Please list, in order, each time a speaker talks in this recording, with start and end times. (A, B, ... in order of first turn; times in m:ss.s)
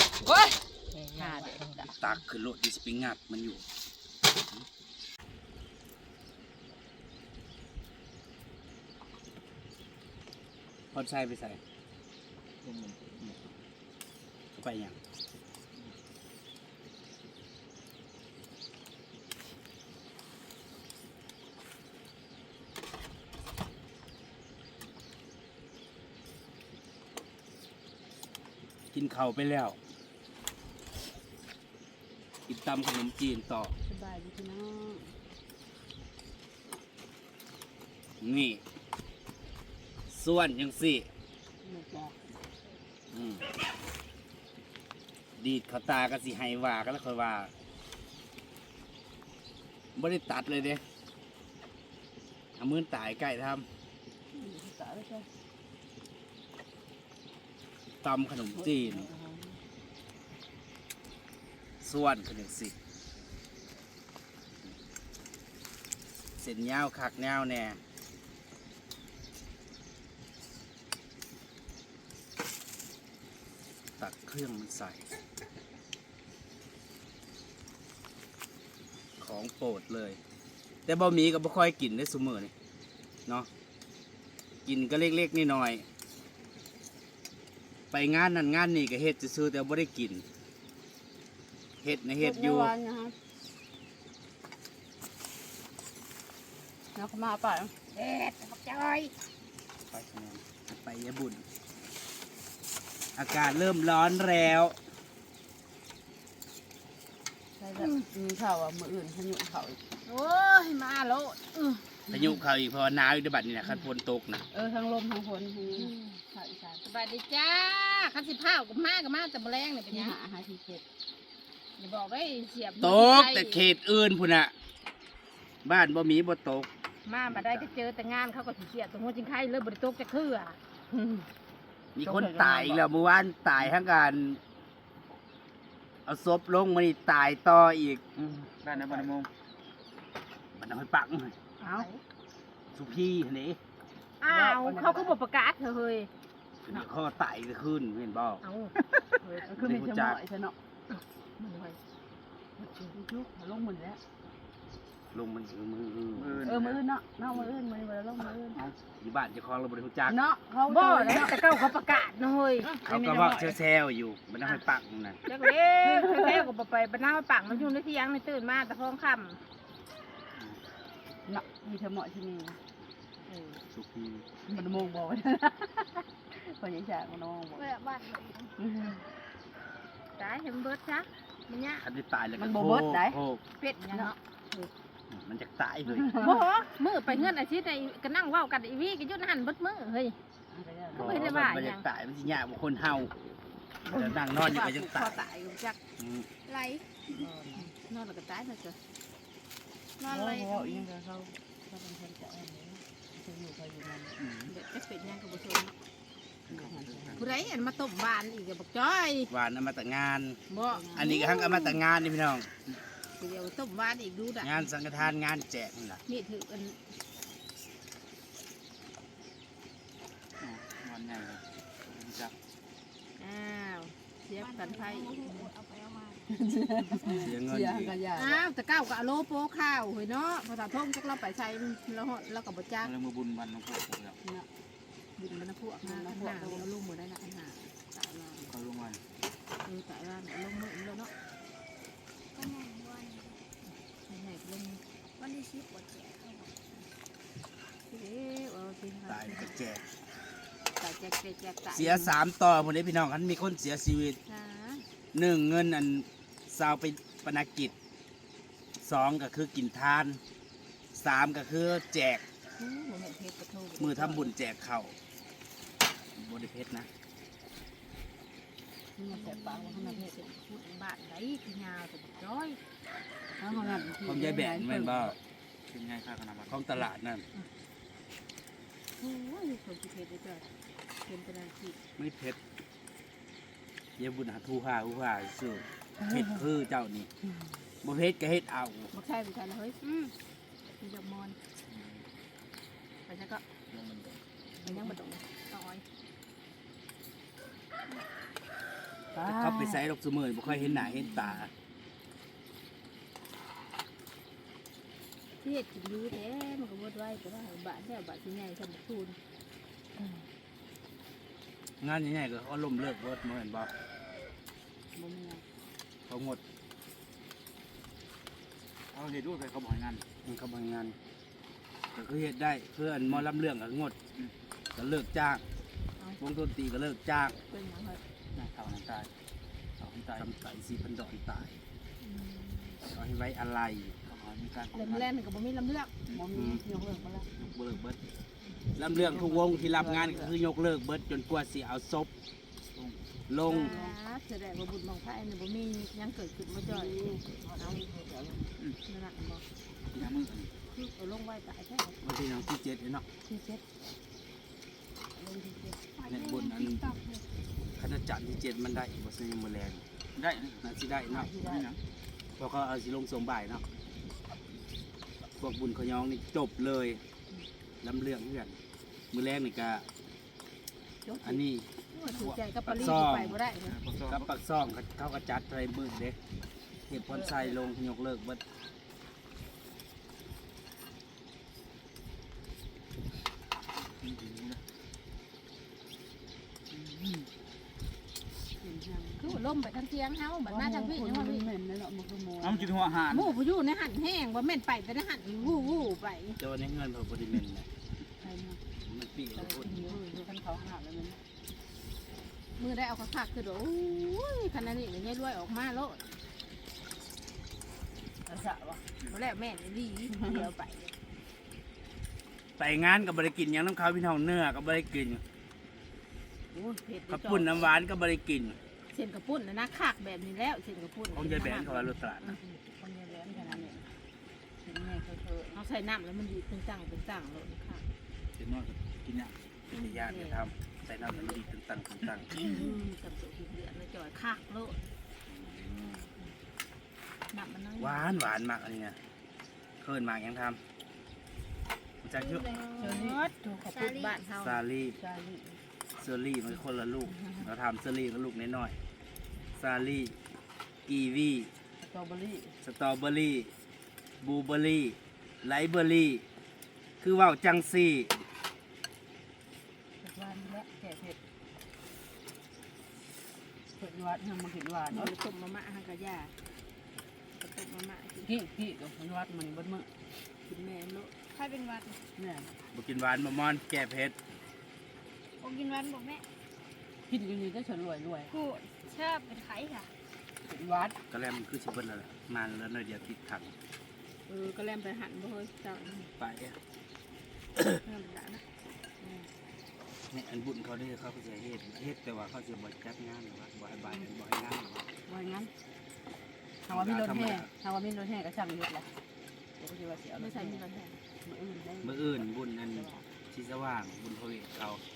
0:00.2-0:01.9 A
0:01.0-0:01.9 B
0:01.8-0:03.6 C
0:10.9-0:11.6 C
0:12.6-0:13.2 D
0:14.5-0:15.0 C
0:28.9-0:29.8 C
0:32.5-0:33.7 C
0:33.8-0:35.1 B
0:38.2-0:38.6 C
0:40.1-0:41.1 C
0:41.6-0:42.2 B
0:43.1-0:43.5 C
0:45.4-0:47.5 C
0:50.0-0:50.8 C
0:52.6-0:53.7 C
0:54.3-0:55.3 B
0:58.0-0:59.1 C
0:58.5-0:59.6 B
1:01.8-1:02.7 C
1:06.4-1:07.8 C
1:14.0-1:15.0 C
1:19.2-1:20.2 C
1:20.8-1:22.5 C
1:24.6-1:25.8 C
1:27.9-1:30.2 C
1:31.8-1:32.7 C
1:32.2-1:33.1 B
1:36.9-1:37.7 B
1:37.9-1:39.1 A
1:39.9-1:41.4 C
1:43.2-1:44.8 C
1:47.6-1:49.8 B
1:47.8-1:48.1 A
1:50.0-1:51.8 A
1:52.1-1:52.4 B
1:52.1-1:54.4 C
1:54.5-1:56.7 B
1:55.6-2:00.2 A
1:59.9-2:00.8 B
2:01.8-2:03.7 A
2:02.8-2:04.5 C
2:05.6-2:06.7 C
2:07.0-2:10.6 A
2:07.3-2:07.7 C
2:10.9-2:11.2 B
2:12.0-2:14.4 C
2:12.0-2:12.9 B
2:16.0-2:18.4 C
2:18.6-2:19.3 D
2:18.7-2:19.1 B
2:20.5-2:21.3 C
2:21.6-2:22.0 A
2:22.7-2:23.6 C
2:24.2-2:26.1 A
2:24.3-2:25.2 B
2:26.6-2:28.4 C
2:28.4-2:28.8 A
2:29.2-2:30.6 B
2:29.6-2:30.2 C
2:30.9-2:31.8 A
2:32.6-2:34.0 B
2:35.1-2:36.4 C
2:36.1-2:36.8 D
2:36.4-2:38.6 B
2:37.3-2:37.5 C
2:39.0-2:40.2 C
2:40.1-2:41.6 B
2:40.7-2:42.8 A
2:42.6-2:43.6 B
2:42.8-2:45.2 C
2:45.2-2:49.4 A
2:45.8-2:46.5 B
2:51.3-2:52.6 B
2:53.3-2:53.6 A
2:53.7-2:54.2 D
2:54.5-2:57.7 B
2:54.6-2:54.8 A
2:57.6-2:58.5 E
2:58.6-2:59.0 B
3:00.2-3:01.8 A
3:01.8-3:03.4 C
3:02.4-3:03.2 B
3:03.6-3:04.2 A
3:03.9-3:04.7 B
3:05.1-3:06.2 C
3:05.9-3:06.4 B
3:06.2-3:10.2 A
3:10.5-3:11.4 B
3:10.9-3:13.1 C
3:10.9-3:11.8 A
3:13.8-3:15.8 A
3:13.9-3:15.2 C
3:16.0-3:16.3 C
3:16.4-3:17.2 E
3:17.1-3:17.7 B
3:17.5-3:18.8 A
3:20.0-3:20.8 E
3:20.0-3:24.2 B
3:24.2-3:24.5 D
3:24.5-3:25.8 A
3:26.4-3:27.4 D
3:26.5-3:27.5 B
3:27.2-3:29.3 A
3:29.3-3:30.4 C
3:30.5-3:31.1 A
3:30.6-3:31.3 B
3:30.9-3:32.5 C
3:33.2-3:34.7 A
3:34.4-3:36.0 C
3:36.0-3:36.8 A
3:40.4-3:42.3 D
3:43.2-3:45.5 A
3:44.4-3:46.2 E
3:46.3-3:48.4 B
3:47.2-3:47.9 C
3:48.1-3:52.9 A
3:52.8-3:54.2 D
3:54.2-3:54.5 B
3:55.2-3:58.5 A
3:55.8-3:56.7 B
3:58.5-3:59.0 D
3:59.6-4:01.1 A
4:02.3-4:03.4 E
4:04.0-4:04.8 A
4:05.2-4:06.5 E
4:06.5-4:06.8 A
4:07.9-4:09.5 A
4:09.1-4:09.9 C
4:10.8-4:12.1 A
4:11.7-4:14.2 C
4:14.2-4:14.8 A
4:15.1-4:17.7 C
4:18.8-4:20.2 C
4:20.9-4:22.2 C
4:22.6-4:24.3 A
4:23.8-4:25.0 C
4:26.1-4:26.9 C
4:29.0-4:30.1 B
4:29.1-4:32.6 A
4:33.4-4:35.2 B
4:33.5-4:33.8 D
4:33.9-4:35.2 C
4:35.7-4:36.6 D
4:36.5-4:37.2 C
4:39.0-4:40.4 A
4:41.0-4:41.8 A
4:42.0-4:42.4 C
4:44.0-4:47.1 C
4:46.0-4:46.4 B
4:47.8-4:48.9 C
4:48.9-4:50.1 A
4:50.8-4:51.4 A
4:51.7-4:52.0 D
4:53.0-4:53.4 A
4:53.7-4:54.2 D
4:54.6-4:55.0 B
4:54.6-4:55.8 A
4:59.1-4:59.8 B
4:59.2-5:01.5 C
5:00.9-5:01.4 A
5:05.4-5:09.2 A
5:11.8-5:13.7 C
5:15.0-5:15.4 B
5:16.1-5:16.4 C
5:18.9-5:20.0 D
5:20.2-5:21.0 C
5:21.9-5:23.9 C
5:24.7-5:25.4 C
5:26.2-5:27.3 C
5:27.3-5:28.0 A
5:28.3-5:29.1 D
5:29.8-5:30.3 D
5:30.2-5:31.6 C
5:32.0-5:32.8 A
5:32.9-5:33.9 C
5:34.0-5:35.1 D
5:34.7-5:35.9 A
5:36.1-5:37.3 B
5:36.3-5:36.6 C
5:37.4-5:37.9 C
5:38.8-5:42.1 C
5:38.9-5:40.3 B
5:42.7-5:43.0 D
5:43.3-5:43.8 C
5:43.4-5:43.9 B
5:43.5-5:47.1 A
5:46.6-5:48.5 B
5:48.8-5:49.4 A
5:49.9-5:50.5 D
5:50.7-5:52.0 A
5:52.0-5:53.0 C
5:53.2-5:53.6 B
5:55.1-5:55.8 B
5:56.0-5:57.2 E
5:56.0-5:56.9 C
5:57.8-5:59.8 C
6:00.1-6:00.6 D
6:00.6-6:01.3 C
6:01.1-6:01.7 B
6:01.4-6:01.8 D
6:02.4-6:03.6 C
6:05.4-6:07.0 C
6:07.8-6:08.6 C
6:09.1-6:09.8 C
6:11.0-6:13.8 A
6:11.2-6:11.7 C
6:12.6-6:13.4 C
6:13.6-6:14.3 D
6:14.1-6:16.2 C
6:16.9-6:18.4 C
6:24.0-6:24.6 D
6:26.7-6:27.3 D
6:28.6-6:29.3 B
6:29.2-6:31.4 A
6:30.4-6:32.8 B
6:32.4-6:33.4 D
6:33.1-6:36.4 A
6:35.4-6:35.9 B
6:36.4-6:37.7 C
6:38.2-6:38.6 B
6:38.8-6:39.8 C
6:39.3-6:40.3 A
6:39.4-6:41.2 B
6:42.6-6:46.0 A
6:48.2-6:48.8 B
6:49.0-6:50.9 A
6:50.1-6:50.4 B
6:52.6-6:55.2 C
6:56.5-6:57.7 A
6:57.1-6:58.6 C
6:58.9-7:02.4 A
7:01.1-7:02.4 C
7:02.4-7:03.8 B
7:04.6-7:05.6 B
7:05.5-7:07.8 A
7:08.4-7:09.6 D
7:09.7-7:10.4 A
7:09.8-7:12.3 C
7:11.1-7:11.4 A
7:12.3-7:14.8 A
7:12.4-7:12.9 B
7:15.3-7:16.1 C
7:17.3-7:18.2 A
7:17.8-7:19.0 C
7:19.8-7:20.6 C
7:22.0-7:22.5 C
7:22.3-7:24.6 A
7:22.8-7:23.9 B
7:23.8-7:24.1 E
7:24.4-7:25.0 C
7:25.0-7:25.6 B
7:26.0-7:28.8 C
7:29.6-7:30.2 C
7:30.8-7:31.5 C
7:31.8-7:32.6 B
7:32.6-7:33.5 C
7:34.2-7:36.2 C
7:37.0-7:38.1 C
7:40.0-7:41.2 B
7:43.8-7:45.1 B
7:44.9-7:46.3 A
7:47.4-7:48.3 A
7:48.2-7:49.9 B
7:50.4-7:51.2 A
7:51.3-7:52.0 E
7:52.2-7:52.5 B
7:52.7-7:54.2 C
7:55.4-7:56.1 A
7:55.4-7:56.2 E
7:57.1-7:58.4 B
7:58.3-7:59.9 A
8:00.5-8:01.0 B
8:01.1-8:03.5 C
8:04.3-8:06.0 A
8:06.1-8:06.6 C
8:07.8-8:08.4 A
8:09.0-8:09.3 B
8:10.1-8:14.8 C
8:15.0-8:15.5 B
8:16.6-8:18.9 B
8:16.7-8:17.5 C
8:19.6-8:20.6 B
8:20.1-8:21.0 A
8:21.2-8:23.0 B
8:21.8-8:24.8 C